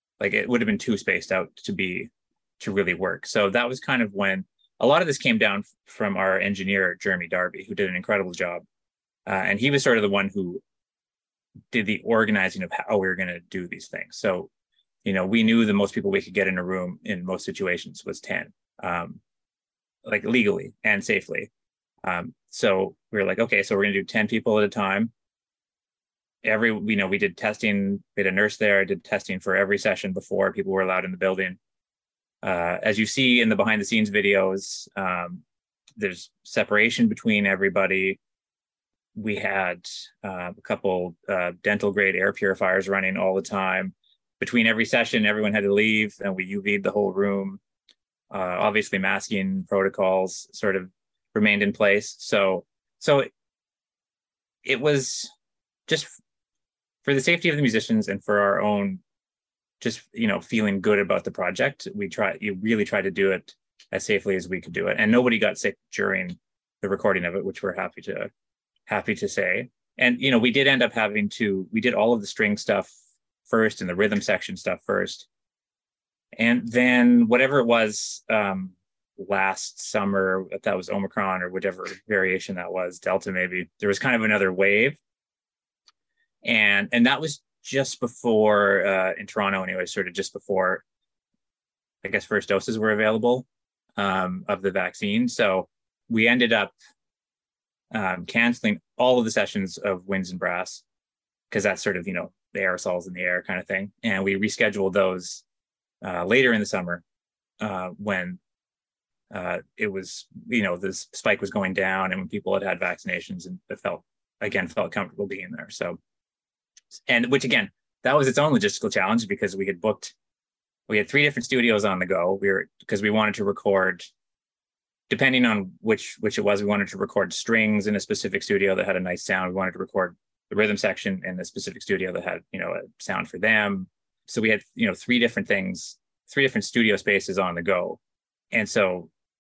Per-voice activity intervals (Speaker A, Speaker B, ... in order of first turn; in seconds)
Speaker A: 0.2-8.6, 9.2-10.6, 11.7-14.5, 15.0-19.2, 20.0-21.5, 22.0-25.1, 26.4-31.6, 32.4-35.4, 36.0-38.2, 39.1-47.6, 48.3-53.3, 54.6-55.3, 55.9-56.1, 57.0-59.0, 59.8-68.3, 68.9-72.9, 73.5-75.3, 76.3-85.0, 86.4-90.8, 92.0-96.7, 97.9-100.8, 101.5-105.4, 106.0-107.0, 107.6-108.4, 109.3-116.0, 117.1-120.1, 120.9-124.1, 125.1-138.0, 138.5-139.1